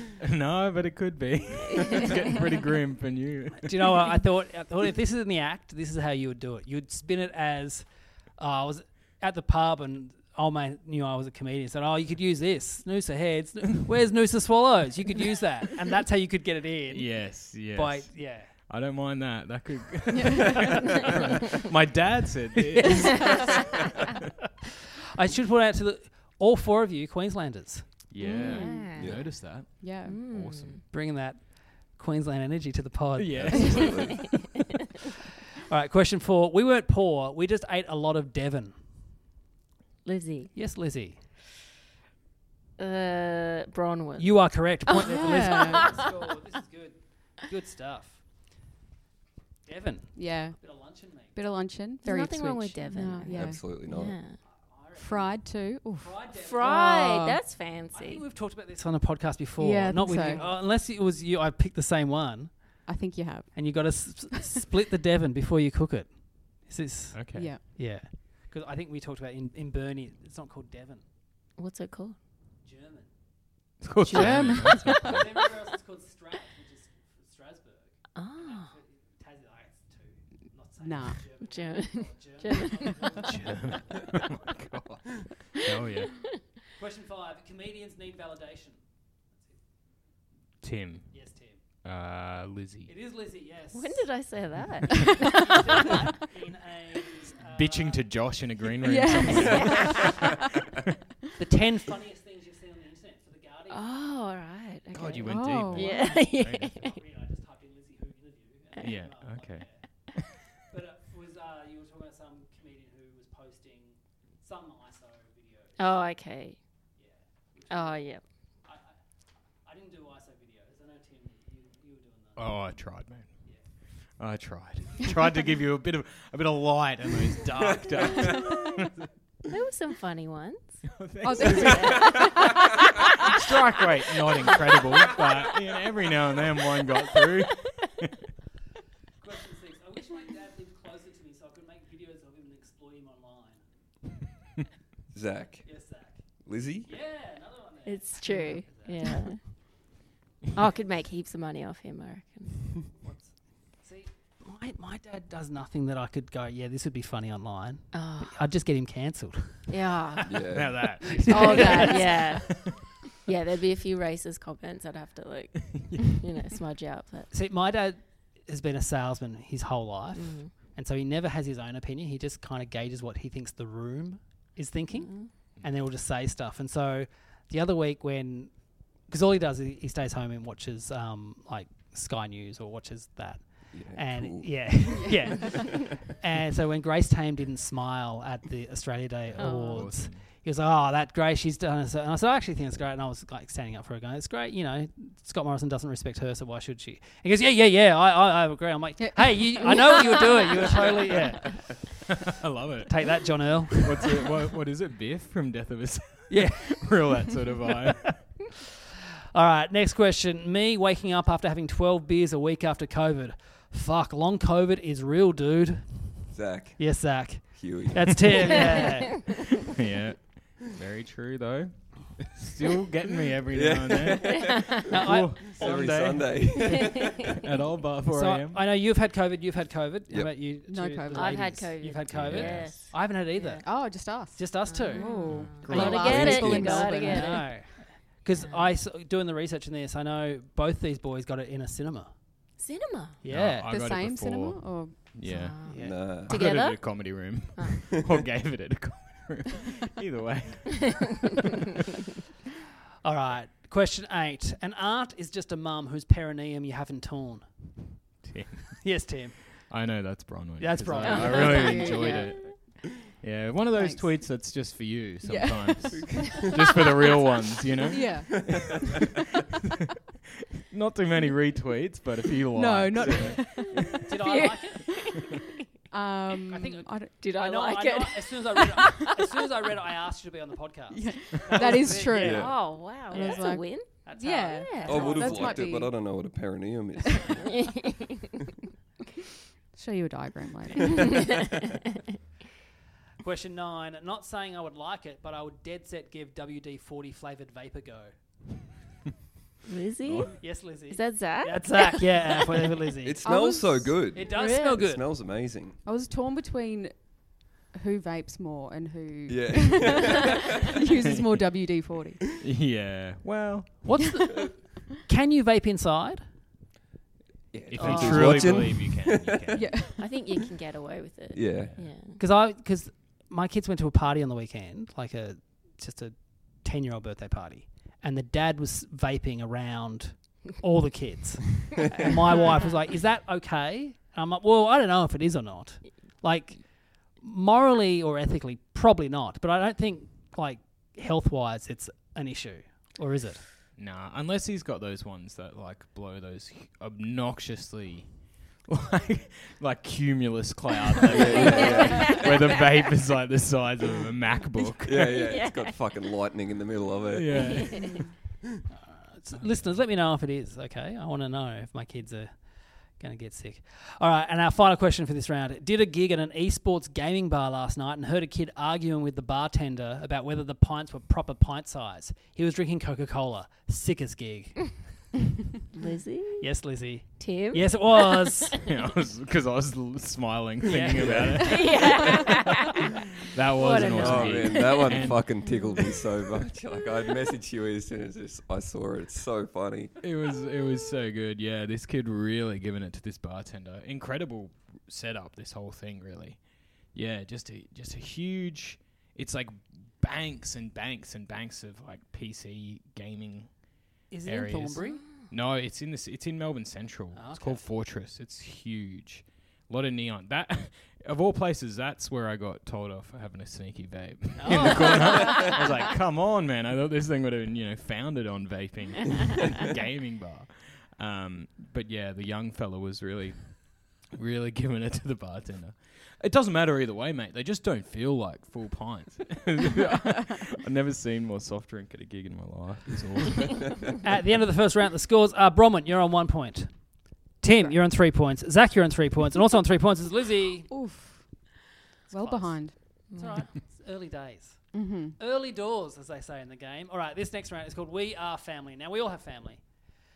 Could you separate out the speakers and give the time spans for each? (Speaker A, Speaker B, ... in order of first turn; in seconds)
Speaker A: 0.2-4.2, 16.9-23.7, 28.1-30.8, 33.2-34.4, 67.1-67.5, 73.8-75.3, 83.2-85.0, 85.5-86.3, 90.6-92.9, 97.5-100.3, 104.9-106.8, 108.8-110.2, 122.4-123.3, 124.2-129.0, 130.9-132.3, 133.2-138.1, 160.5-162.8, 165.6-166.1, 189.3-190.3, 202.3-208.4, 219.6-226.4, 227.4-228.6, 232.1-233.0, 235.2-236.4, 243.3-251.1, 258.2-259.1, 259.7-268.5, 270.7-274.0, 312.4-313.9, 317.7-319.8, 321.6-321.9, 343.8-355.2, 357.1-357.9, 359.3-359.8, 378.6-382.5, 383.3-385.4, 390.0-403.6, 404.2-433.9
Speaker B: 1.9-2.1, 22.9-23.6, 28.2-29.2, 30.0-30.8, 40.0-40.5, 42.8-44.5, 52.0-54.4, 56.4-58.2, 60.2-60.5, 71.6-72.2, 74.0-75.2, 78.2-78.7, 81.4-83.0, 93.7-96.0, 99.3-100.0, 103.7-107.0, 115.8-116.6, 117.7-118.2, 129.5-130.8, 131.4-132.4, 134.4-134.8, 147.9-149.6, 150.5-152.7, 157.9-158.4, 159.7-160.3, 161.3-162.7, 163.2-167.3, 170.1-170.5, 174.9-175.3, 189.4-189.8, 226.7-227.3, 231.1-233.6, 234.7-237.6, 238.4-238.7, 242.6-243.2, 245.2-247.8, 261.0-262.9, 274.2-275.5, 277.2-279.2, 282.2-285.4, 287.6-288.1, 299.7-302.3, 304.1-304.8, 317.8-318.5, 320.0-322.2, 351.3-352.7, 355.0-355.8, 357.5-357.9, 375.7-376.6, 377.2-378.6, 381.4-382.9, 383.5-385.0, 404.9-405.2, 443.1-443.5
Speaker C: 3.6-7.8, 8.4-18.5, 25.1-27.9, 30.9-33.8, 35.7-38.8, 40.5-41.2, 44.2-48.2, 49.6-51.3, 54.5-55.4, 56.0-56.9, 57.9-62.8, 63.5-71.0, 72.6-73.1, 74.1-84.0, 86.8-88.8, 91.1-91.6, 92.9-94.1, 95.2-98.0, 101.4-103.8, 106.8-109.8, 110.6-115.9, 117.0-118.0, 118.7-118.9, 119.6-122.4, 139.2-143.6, 145.6-146.2, 146.8-149.4, 153.0-160.4, 161.0-162.2, 167.3-201.8, 202.9-204.0, 206.3-206.9, 209.3-216.2, 216.8-219.3, 224.9-226.6, 228.1-235.2, 236.2-242.1, 243.2-243.7, 245.6-246.0, 253.0-257.9, 258.8-259.7, 260.6-262.1, 274.0-275.0, 276.5-282.5, 283.1-283.4, 284.0-285.7, 293.2-298.1, 300.4-303.1, 304.1-305.0, 313.8-316.2, 322.2-343.4, 358.7-374.8, 376.4-378.5, 380.6-381.3, 404.1-405.0, 407.1-407.6, 414.4-415.5, 434.0-440.7, 442.1-449.7
Speaker D: 20.2-20.6, 28.2-29.1, 29.7-30.2, 45.0-46.0, 50.1-53.8, 55.0-57.4, 59.6-60.5, 62.9-64.6, 67.3-67.6, 74.3-74.8, 80.8-81.2, 98.8-100.0, 105.2-106.2, 131.2-132.4, 199.0-200.0, 230.7-231.6, 233.6-237.5, 243.7-245.1, 263.7-264.5, 265.2-266.5, 267.9-268.4, 272.5-274.1, 275.9-277.1, 280.9-285.9, 289.7-291.1, 303.2-303.8, 305.9-312.2, 313.9-314.4, 318.0-318.3, 319.5-320.1, 437.5-437.8, 440.7-441.3, 442.1-442.8, 444.7-445.1
Speaker E: 29.0-29.4, 33.3-34.4, 53.3-54.2, 127.9-128.5, 145.1-145.7, 146.4-146.9, 160.3-160.9, 183.7-184.9, 185.5-186.0, 216.3-218.7, 223.5-224.7, 225.4-227.4, 230.1-230.5, 235.7-236.9, 245.8-246.5, 265.9-267.1, 268.3-268.7, 282.2-282.8, 284.9-287.7, 303.0-305.8, 309.3-310.7, 317.5-319.6, 321.3-321.7, 351.0-352.6, 354.8-357.9, 380.9-381.6, 383.7-390.0